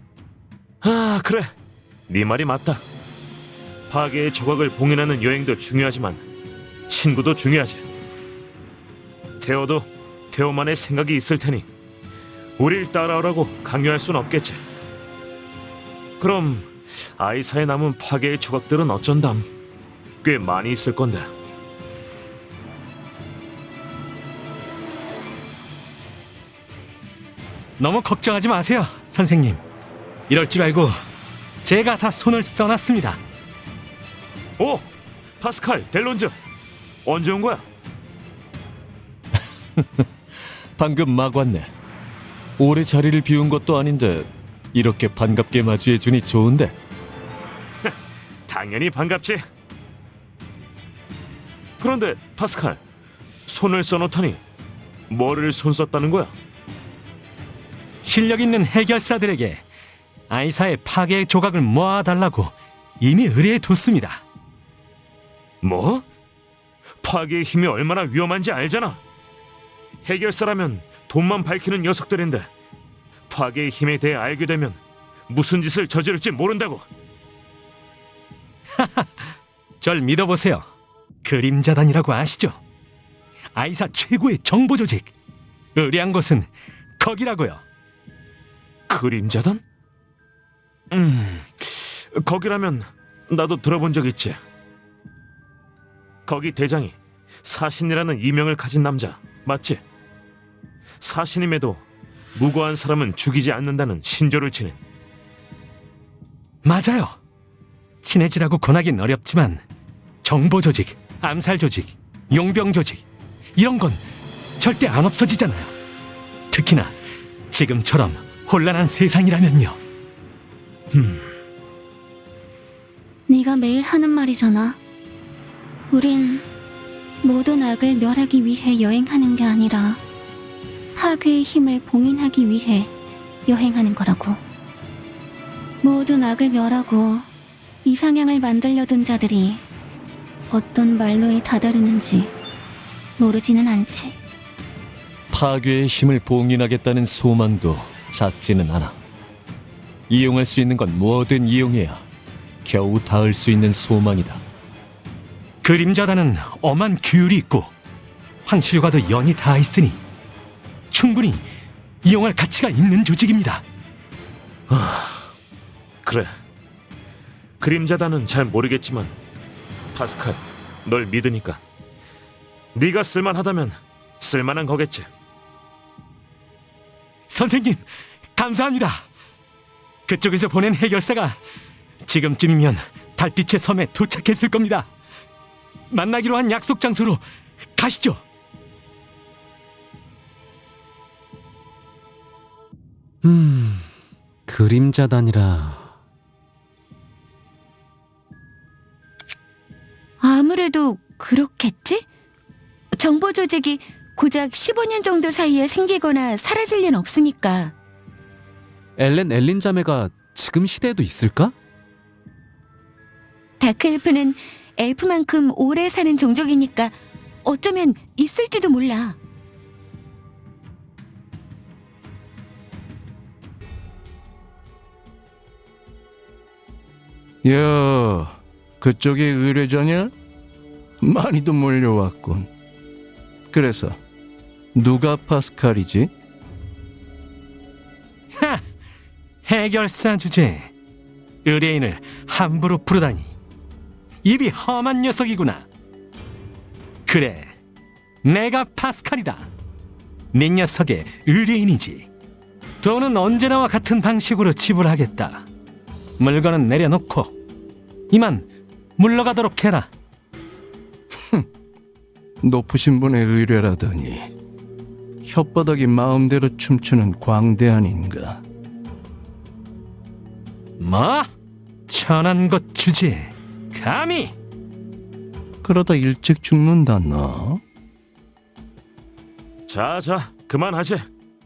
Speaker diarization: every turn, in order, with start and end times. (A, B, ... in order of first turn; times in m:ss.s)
0:00.8-0:01.5 A
0:02.1-0:02.8 A
0:03.9-0:06.2 A
0:06.9-0:07.8 A
0:09.4-0:11.7 A
0:12.6-0:14.6 A
0:16.2-0:19.4 A
0:20.2-0:21.3 A
0:27.8-0:29.6 B
0:30.3-0:31.0 B
0:31.6-0:33.2 B
0:34.6-0:34.9 A
0:35.4-0:36.3 A
0:37.0-0:37.6 A
0:39.8-0:40.1 C
0:40.8-0:41.7 C
0:42.6-0:46.8 C
0:48.5-0:49.4 A
0:51.8-0:52.8 A
0:53.5-0:54.4 A
0:55.1-0:56.3 A
0:58.0-0:59.6 B
1:00.3-1:04.2 B
1:05.6-1:06.0 A
1:07.0-1:09.0 A
1:10.0-1:12.5 A
1:13.3-1:16.8 A
1:18.7-1:20.7 B
1:21.2-1:22.6 B
1:23.5-1:25.1 B
1:25.8-1:27.6 B
1:28.9-1:29.6 A
1:30.9-1:34.4 A
1:36.3-1:39.8 A
1:41.0-1:41.8 A
1:42.3-1:44.8 A
1:46.6-1:47.2 B
1:48.0-1:49.6 B
1:50.2-1:54.0 B
1:54.6-1:55.7 B
1:56.5-1:57.0 B
1:57.5-1:59.8 B
2:00.9-2:01.2 A
2:03.3-2:04.8 D
2:05.9-2:06.5 D
2:07.2-2:10.0 D
2:10.9-2:12.9 D
2:13.4-2:14.4 D
2:15.8-2:17.3 D
2:17.8-2:19.6 D
2:20.5-2:22.3 D
2:23.2-2:24.2 D
2:25.3-2:29.0 C
2:30.1-2:32.0 C
2:32.6-2:34.4 C
2:35.6-2:37.7 B
2:38.4-2:40.0 B
2:40.9-2:41.4 B
2:42.0-2:43.6 B
2:44.7-2:45.3 A
2:46.0-2:46.3 A
2:47.6-2:49.1 A
2:49.9-2:51.6 A
2:52.7-2:55.1 A
2:57.3-2:59.1 B
3:00.1-3:01.4 B
3:02.0-3:04.9 B
3:05.9-3:07.2 B
3:07.7-3:08.2 B
3:13.2-3:13.9 E
3:14.5-3:15.9 E
3:20.2-3:22.0 F
3:22.9-3:27.7 F
3:29.0-3:31.5 E
3:33.6-3:39.2 F
3:47.4-3:50.1 G
3:51.0-3:52.5 G
3:53.5-3:54.0 G
3:54.7-3:56.1 G
3:58.3-3:58.6 B
3:59.4-4:00.7 B
4:01.4-4:03.3 B
4:04.2-4:05.6 B
4:07.0-4:07.5 B
4:08.2-4:09.5 B
4:10.3-4:12.1 B
4:12.8-4:15.4 B
4:16.2-4:17.3 B
4:18.1-4:19.9 B
4:21.2-4:21.4 G
4:22.4-4:24.3 G
4:25.2-4:28.4 G
4:30.8-4:31.3 B
4:31.9-4:34.3 B
4:35.6-4:37.6 G
4:39.7-4:41.0 A